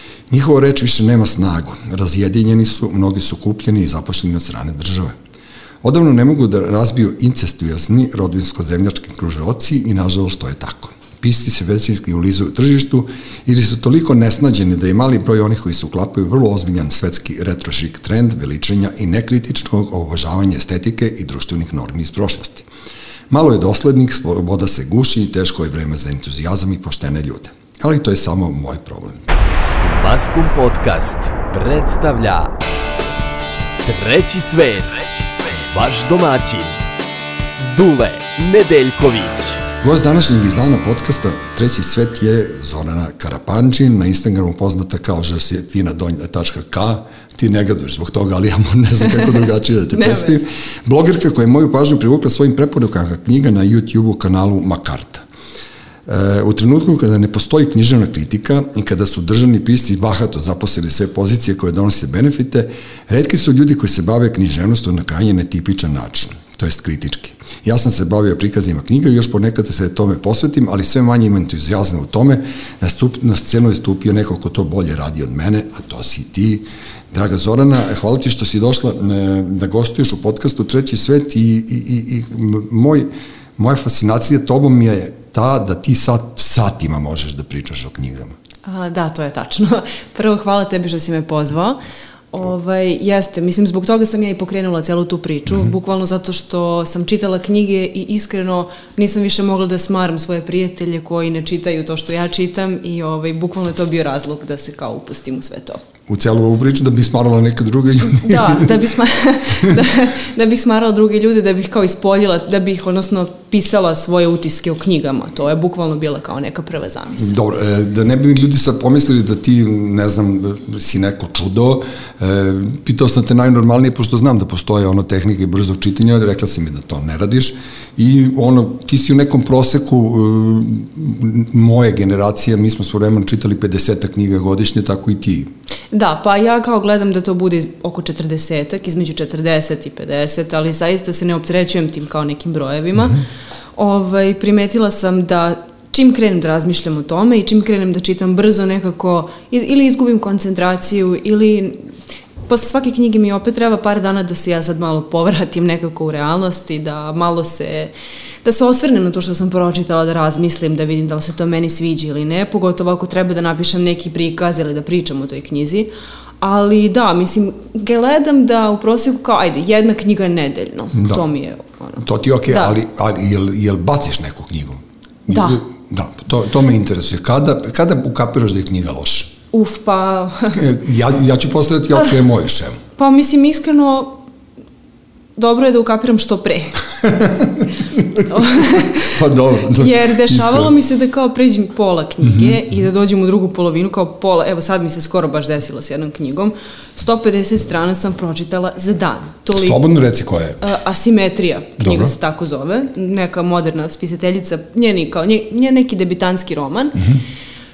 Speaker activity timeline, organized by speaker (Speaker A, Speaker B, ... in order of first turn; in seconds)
Speaker A: 0.3-5.2, 5.8-22.7, 23.3-29.4, 39.8-55.2, 56.1-88.4, 106.1-108.8, 117.2-135.5, 170.9-171.2, 172.0-179.3, 180.5-182.8, 187.1-190.7, 192.2-192.6, 199.5-200.6, 201.8-202.1
Speaker B: 29.8-32.5, 33.9-36.8, 37.6-39.6
Speaker C: 49.9-50.5, 88.7-91.8, 92.3-105.8, 108.1-117.3, 135.9-143.2, 143.8-151.9, 152.5-157.9, 158.4-165.9, 166.4-172.7, 175.3-175.6, 179.5-180.6, 183.0-184.2, 185.4-186.8, 188.2-189.2, 189.7-199.8, 200.6-207.0